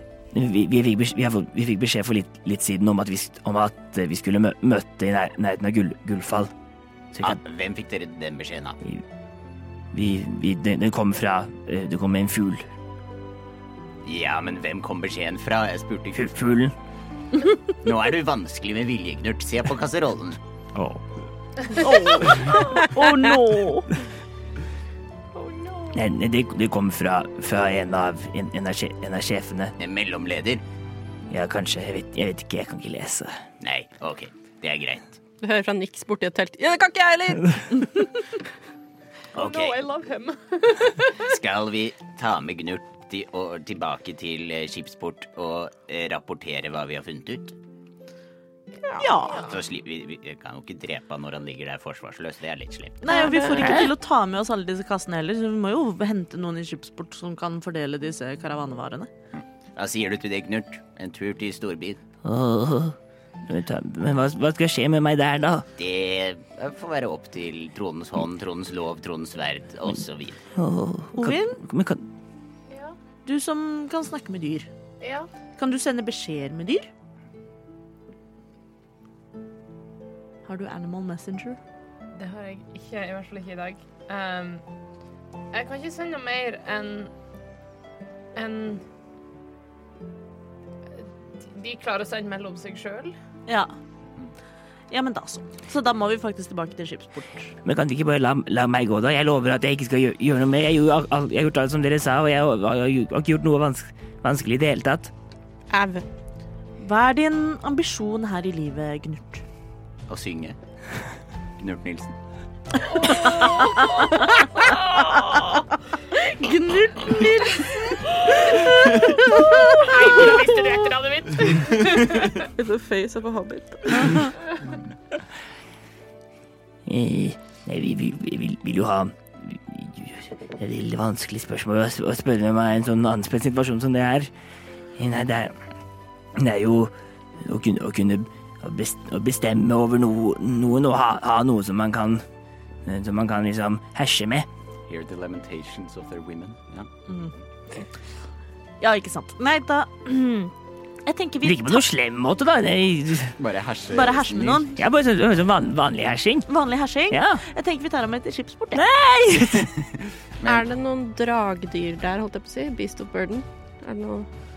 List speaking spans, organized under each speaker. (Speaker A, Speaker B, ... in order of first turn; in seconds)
Speaker A: 0.3-6.5, 7.1-7.4, 9.9-12.7, 16.1-16.8, 20.8-21.0, 25.9-29.7, 31.3-33.4, 62.2-65.7, 70.5-72.1, 97.6-105.1, 126.9-134.3, 135.0-135.6, 136.4-142.2, 142.8-144.5, 151.4-153.4, 154.8-156.5, 157.1-157.4, 158.7-159.7
Speaker B: 7.2-8.8, 14.1-16.3, 17.8-20.4, 29.8-30.6, 33.6-35.2, 39.4-39.8, 41.2-47.5, 49.5-53.1, 59.4-62.0, 65.8-70.4, 110.1-110.6, 111.6-112.1, 144.9-146.9, 153.4-154.7
Speaker C: 21.7-23.9, 49.0-49.5, 53.0-59.1, 71.2-71.6, 73.2-74.7, 75.6-76.9, 80.5-81.6, 93.5-93.7, 94.9-97.5, 106.8-109.4, 113.1-115.3, 116.1-119.7, 124.0-124.3, 148.8-150.5, 151.1-151.8, 153.9-154.8, 156.5-158.8
Speaker D: 25.4-25.9, 39.4-41.0, 72.7-73.0, 75.0-75.3, 82.1-84.6, 85.5-87.1, 88.3-88.8, 91.5-93.1, 119.6-122.5
Speaker E: 35.4-37.8, 48.8-49.1, 53.1-53.9, 105.7-106.0, 122.4-124.3, 160.4-164.3